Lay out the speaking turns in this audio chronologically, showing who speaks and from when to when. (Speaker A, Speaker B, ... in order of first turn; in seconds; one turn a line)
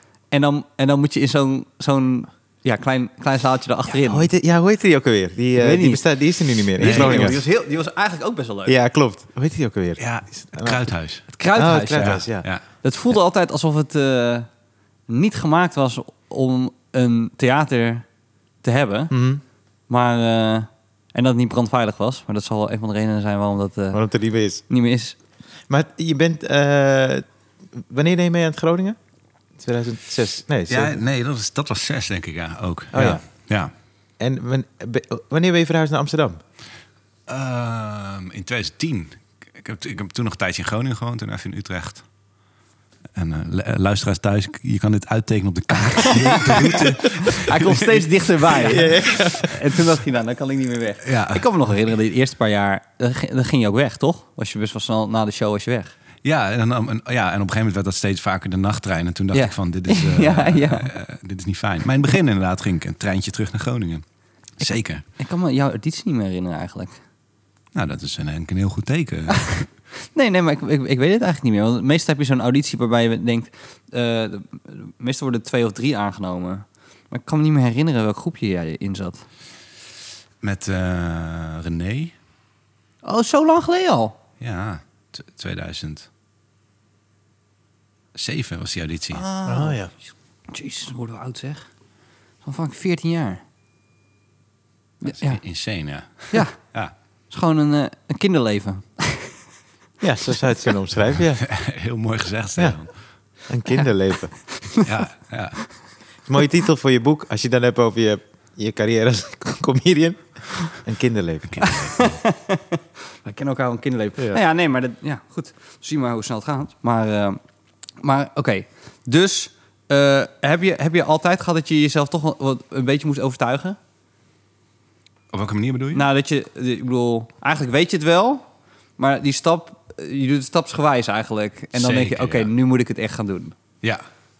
Speaker A: 0.3-4.3
Speaker B: 3.9-7.4
Speaker A: 5.6-6.0
Speaker C: 6.8-7.4
Speaker A: 6.8-8.7
Speaker B: 8.7-10.8
Speaker C: 10.0-11.3
Speaker A: 11.3-12.2
Speaker B: 11.5-12.4
Speaker C: 12.0-12.6
Speaker A: 12.8-14.5
Speaker A: 15.1-18.0
Speaker A: 18.6-19.1
Speaker B: 19.1-19.4
Speaker A: 19.9-24.0
Speaker B: 23.9-24.6
Speaker A: 24.7-25.2
Speaker B: 25.7-27.2
Speaker B: 27.9-28.9
Speaker B: 29.6-31.0
Speaker C: 30.7-33.7
Speaker B: 32.9-33.2
Speaker B: 34.2-36.4
Speaker C: 37.3-42.0
Speaker C: 43.1-48.9
Speaker A: 45.9-55.9
Speaker B: 46.5-46.8
Speaker B: 48.6-49.6
Speaker C: 51.0-51.4
Speaker C: 56.2-64.0
Speaker A: 59.3-60.9
Speaker C: 64.6-65.0
Speaker A: 64.6-67.0
Speaker C: 67.7-69.6
Speaker A: 69.3-79.2
Speaker C: 80.4-82.1
Speaker A: 83.0-84.1
Speaker C: 84.4-86.1
Speaker C: 88.1-89.2
Speaker A: 89.1-89.8
Speaker B: 89.5-89.9
Speaker A: 90.5-91.7
Speaker A: 92.4-93.4
Speaker A: 95.0-95.4
Speaker C: 95.0-96.9
Speaker A: 97.3-99.3
Speaker B: 100.0-101.4
Speaker C: 101.4-102.9
Speaker B: 103.5-104.4
Speaker A: 104.5-104.8
Speaker C: 104.8-105.6
Speaker B: 106.3-111.6
Speaker C: 111.5-112.2
Speaker A: 111.6-117.4
Speaker A: 118.0-123.8
Speaker C: 125.3-126.0
Speaker A: 125.9-128.4
Speaker A: 129.0-133.6
Speaker C: 131.7-132.5